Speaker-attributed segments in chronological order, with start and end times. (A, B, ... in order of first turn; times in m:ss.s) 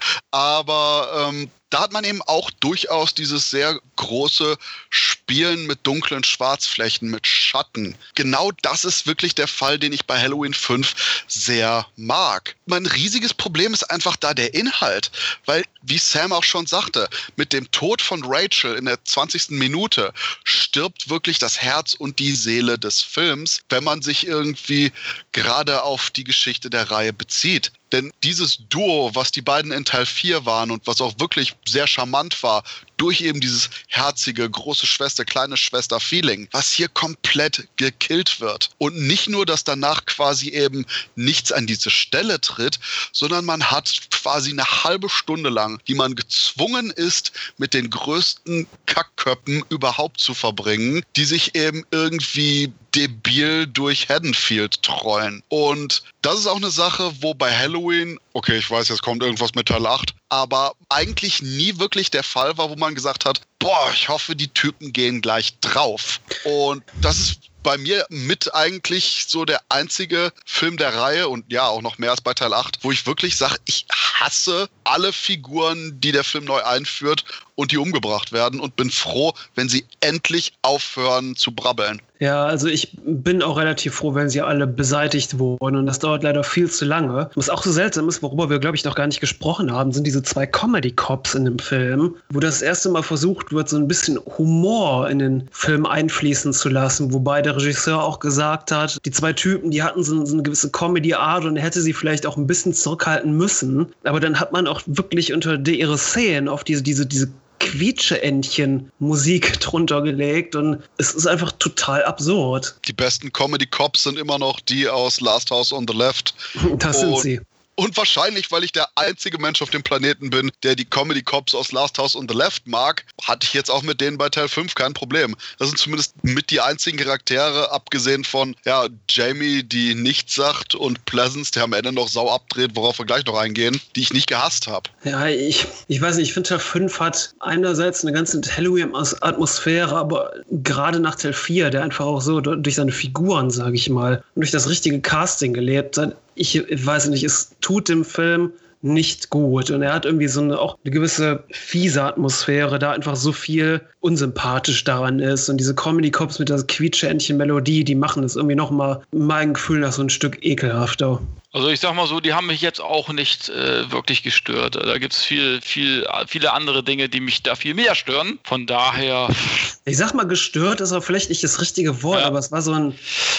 0:00.3-1:22.0 A
1:22.2-1:52.7 B
1:52.8-1:56.4 A
1:56.6-1:57.4 B
1:56.9-2:14.9 A
2:15.0-2:41.2 B
2:41.5-2:49.7 C
2:49.9-2:53.0 B